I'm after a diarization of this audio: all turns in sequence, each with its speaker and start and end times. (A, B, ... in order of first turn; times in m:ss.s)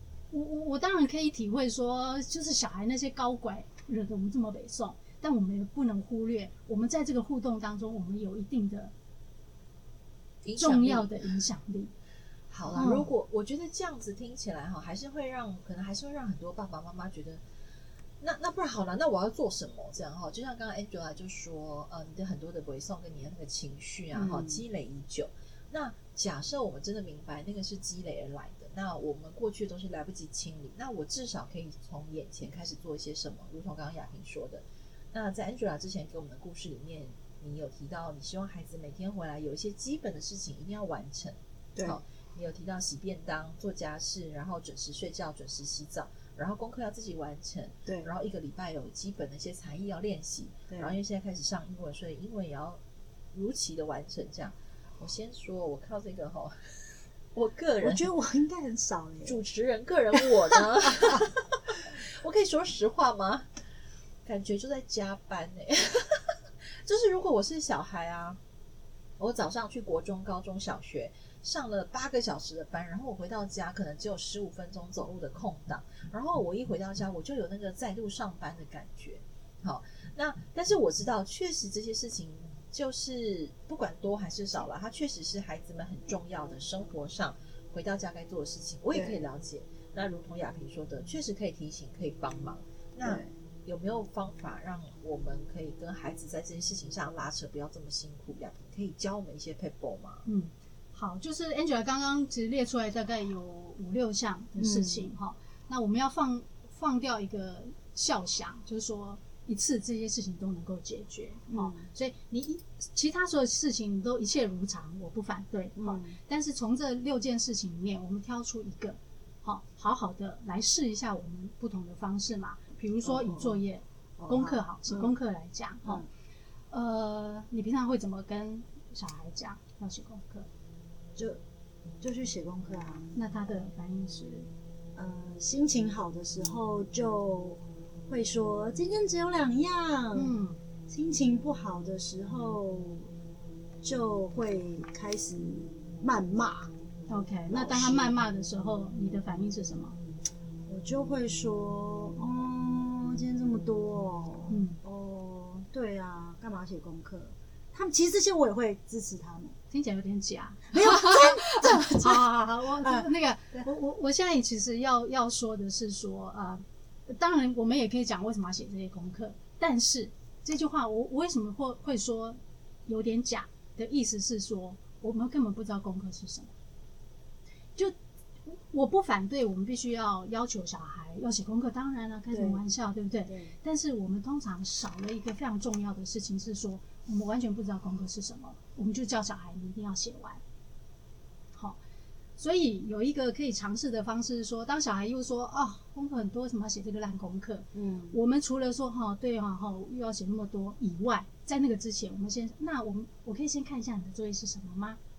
0:00.3-0:08.9 A
0:10.4-0:11.1 B
0:10.6-0:11.9 A
0:12.5-0:17.4 B
0:12.7-0:13.1 A
0:18.2-0:52.8 B
0:24.1-0:24.6 C
0:50.7-0:51.0 C
0:53.3-0:58.1 B
0:57.8-0:59.4 C
0:59.2-1:03.5 B
1:00.1-1:01.2 C
1:04.2-1:08.4 B
1:09.2-1:40.2 B
1:28.9-1:29.2 C
1:33.0-1:33.3 C
1:40.2-2:06.0 A
1:44.6-1:45.1 C
1:51.5-1:51.9 C
1:55.8-1:56.2 C
2:03.0-2:03.6 C
2:04.2-2:05.1 C
2:06.7-2:10.5 A
2:11.2-2:11.4 C
2:12.0-2:13.1 C
2:13.2-2:14.5 A
2:15.0-2:20.3 C
2:20.1-2:20.6 A
2:20.9-2:23.1 C
2:23.8-2:26.7 C
2:27.1-2:30.0 A
2:27.5-2:28.1 C
2:30.7-2:39.6 C
2:34.5-2:34.8 A
2:39.7-2:56.5 A
2:40.7-2:42.3 C
2:42.8-2:43.7 C
2:58.4-3:10.4 A
3:02.3-3:02.6 C
3:03.3-3:03.6 C
3:12.4-3:25.0 A
3:17.7-3:18.2 C